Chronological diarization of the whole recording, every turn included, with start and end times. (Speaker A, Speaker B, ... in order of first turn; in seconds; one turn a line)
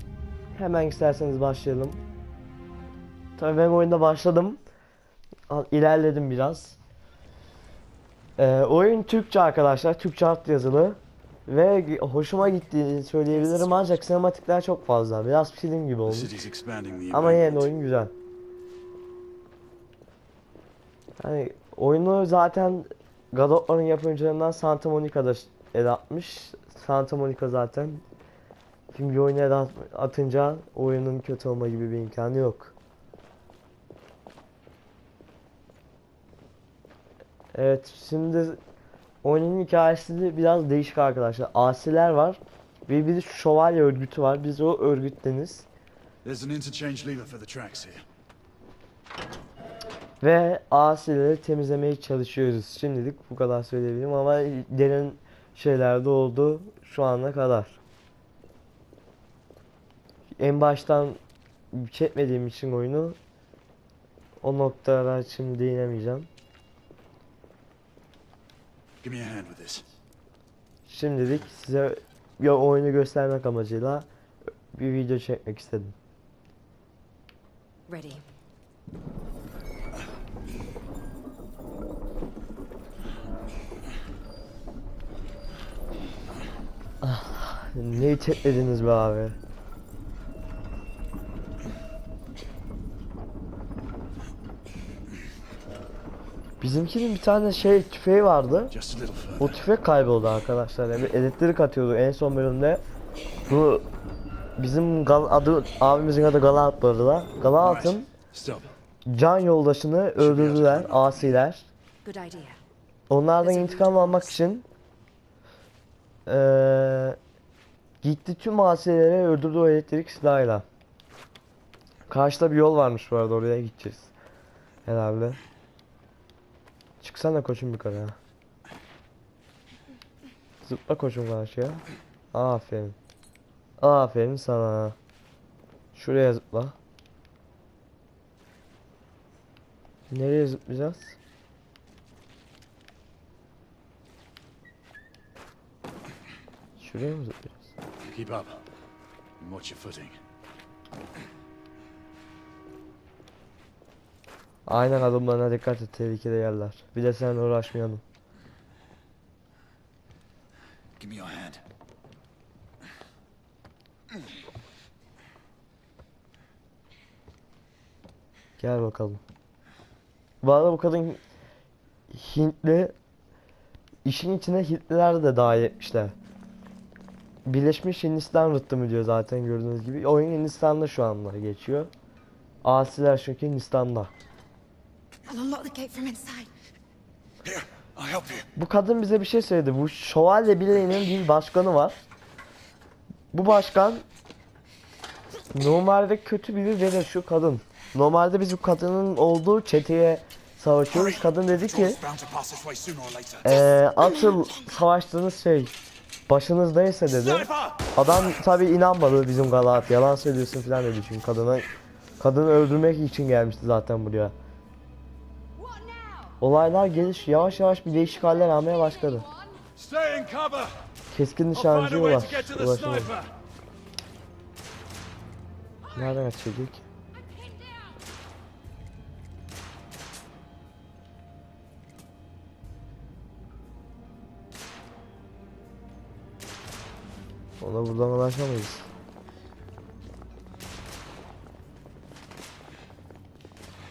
Speaker A: 0.5-2.0
Speaker A: 3.4-4.6
Speaker A: 5.5-6.8
Speaker A: 8.4-16.3
Speaker B: 16.1-17.7
Speaker A: 17.1-18.1
Speaker A: 21.2-28.0
Speaker A: 28.9-32.7
Speaker A: 37.5-38.6
Speaker A: 39.2-45.7
Speaker B: 46.2-48.0
Speaker A: 50.2-57.8
Speaker A: 60.4-61.2
Speaker A: 61.7-63.2
Speaker A: 64.4-66.3
Speaker B: 69.0-69.8
Speaker A: 70.8-74.1
Speaker A: 74.7-75.9
Speaker C: 77.9-78.2
Speaker A: 87.0-89.3
Speaker A: 96.6-98.7
Speaker B: 98.7-99.5
Speaker A: 99.4-102.8
Speaker A: 103.5-103.8
Speaker A: 104.6-108.1
Speaker B: 107.6-108.7
Speaker A: 109.1-111.7
Speaker B: 110.2-111.3
Speaker C: 112.0-112.6
Speaker A: 113.1-114.7
Speaker C: 113.5-114.2
Speaker A: 116.2-117.2
Speaker A: 118.0-120.7
Speaker A: 122.1-124.1
Speaker A: 124.8-125.4
Speaker A: 127.0-128.2
Speaker A: 130.6-133.0
Speaker A: 133.8-134.9
Speaker A: 135.9-136.8
Speaker A: 140.1-141.2
Speaker A: 146.8-147.7
Speaker B: 148.1-148.6
Speaker B: 149.4-150.2
Speaker A: 154.7-158.0
Speaker B: 161.0-161.6
Speaker A: 168.6-169.2
Speaker A: 170.4-171.2
Speaker A: 172.1-172.9
Speaker A: 174.0-176.1
Speaker A: 177.4-181.9
Speaker A: 182.6-184.1
Speaker C: 185.2-186.5
Speaker B: 187.4-188.5
Speaker A: 188.5-192.0
Speaker A: 193.3-194.0
Speaker A: 195.5-202.0
Speaker B: 201.8-203.4
Speaker A: 203.4-205.8
Speaker A: 206.3-211.7
Speaker A: 212.2-214.3
Speaker C: 215.6-216.3
Speaker A: 216.4-219.3
Speaker B: 219.7-220.8
Speaker A: 221.1-223.1
Speaker B: 221.5-223.3
Speaker A: 225.9-226.9
Speaker C: 227.2-227.9
Speaker A: 237.6-238.9